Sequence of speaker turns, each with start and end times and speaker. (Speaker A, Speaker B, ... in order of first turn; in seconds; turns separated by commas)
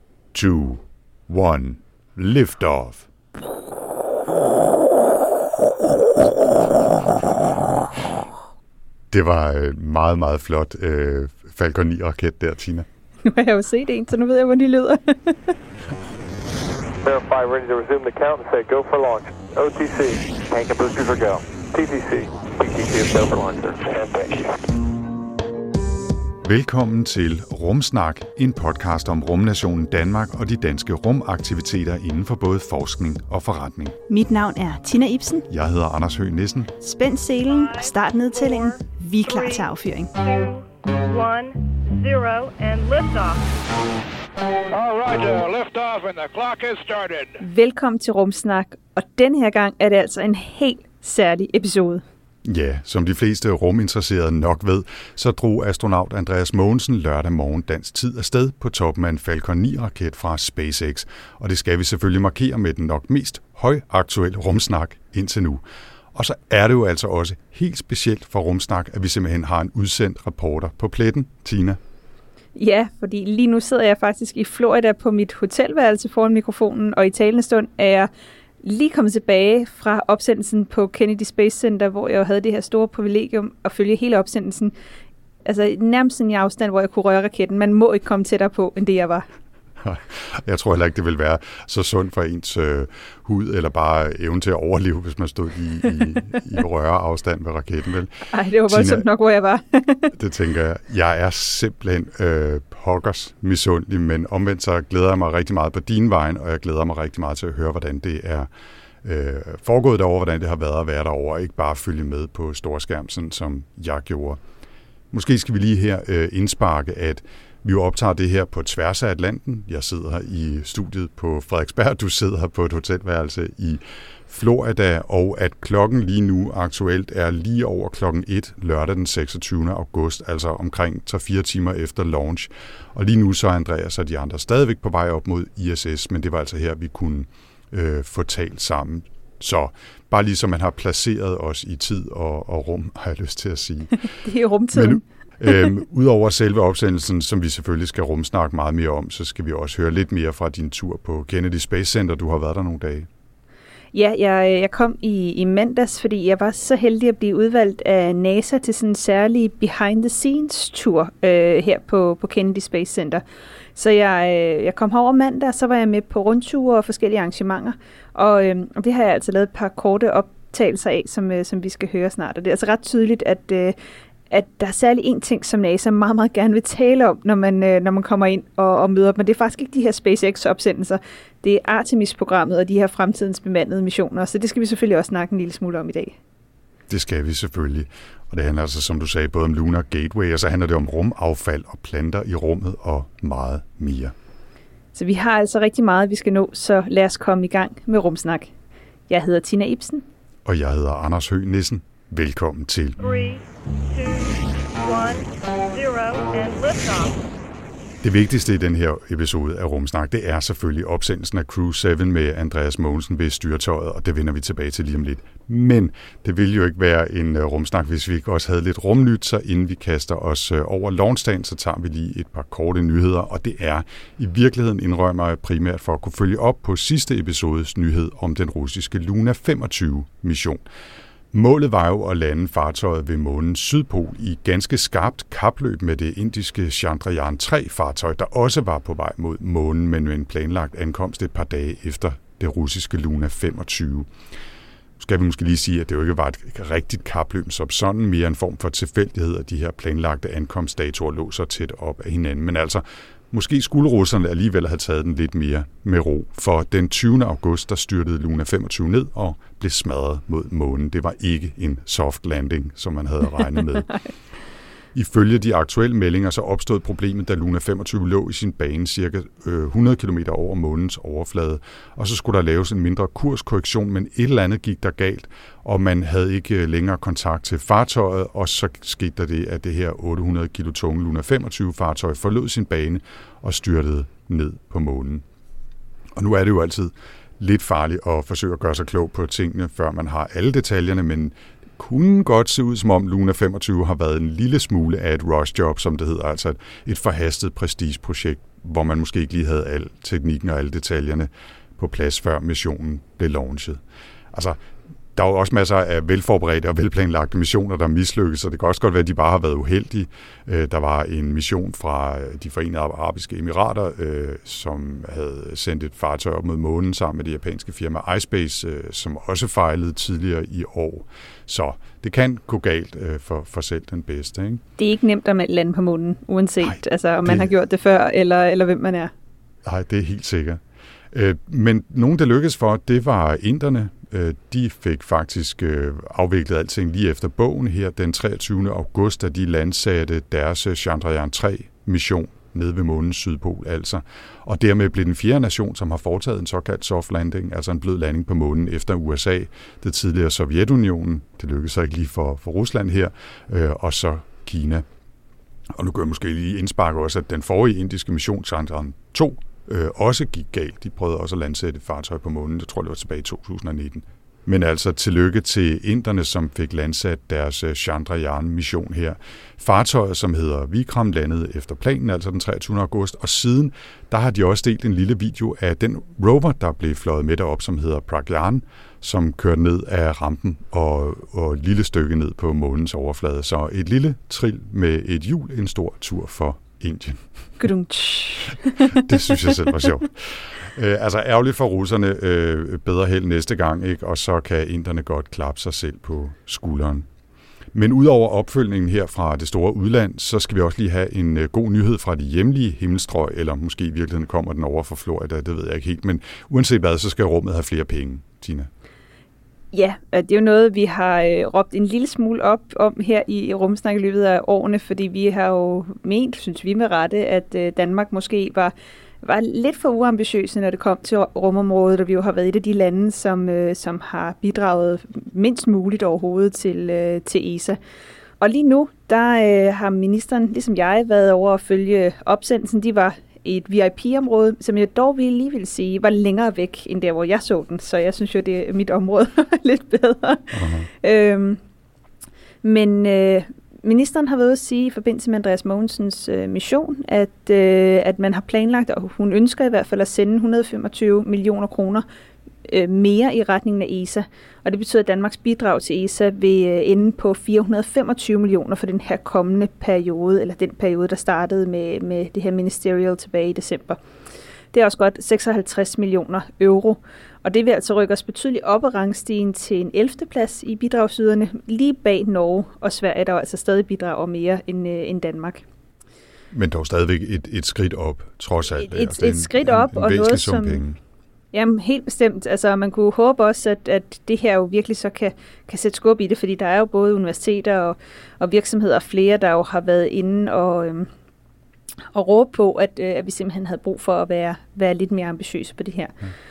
Speaker A: 0.3-3.1, Speaker A: 9.1-12.9, Speaker B: 13.2-15.6, Speaker C: 17.0-24.6, Speaker A: 26.4-34.0, Speaker B: 34.1-35.5, Speaker A: 35.5-36.7, Speaker B: 36.8-40.1, Speaker D: 37.5-43.5, Speaker E: 44.7-47.4, Speaker B: 47.4-52.0, Speaker A: 52.5-65.6, Speaker A: 66.2-71.8, Speaker B: 72.5-78.1, Speaker B: 78.6-84.7, Speaker B: 85.5-89.3, Speaker A: 89.8-99.1, Speaker B: 98.3-100.1, Speaker A: 100.1-108.5, Speaker A: 109.0-114.4, Speaker A: 115.1-144.1, Speaker B: 144.2-145.6, Speaker A: 144.7-153.1, Speaker B: 153.9-163.2, Speaker B: 163.8-173.8, Speaker B: 174.3-186.2, Speaker A: 186.9-194.1, Speaker B: 194.9-198.5, Speaker B: 199.1-200.1, Speaker A: 200.5-203.0, Speaker D: 203.0-207.2, Speaker A: 208.0-230.6, Speaker A: 231.3-244.1, Speaker A: 245.0-263.9, Speaker A: 264.9-285.2, Speaker A: 286.2-303.8, Speaker A: 304.3-304.6, Speaker A: 305.2-324.6, Speaker B: 324.8-329.1, Speaker A: 326.6-327.5, Speaker A: 329.6-330.6, Speaker A: 331.1-354.9, Speaker A: 355.8-387.2, Speaker B: 387.6-389.5, Speaker A: 388.9-397.1, Speaker A: 397.7-408.7, Speaker B: 409.7-427.8, Speaker B: 428.4-441.6, Speaker A: 440.5-440.9, Speaker B: 442.6-452.1, Speaker B: 452.6-464.0, Speaker B: 464.7-475.6, Speaker A: 476.5-481.0, Speaker B: 478.8-480.8, Speaker B: 481.5-491.1, Speaker B: 492.1-496.3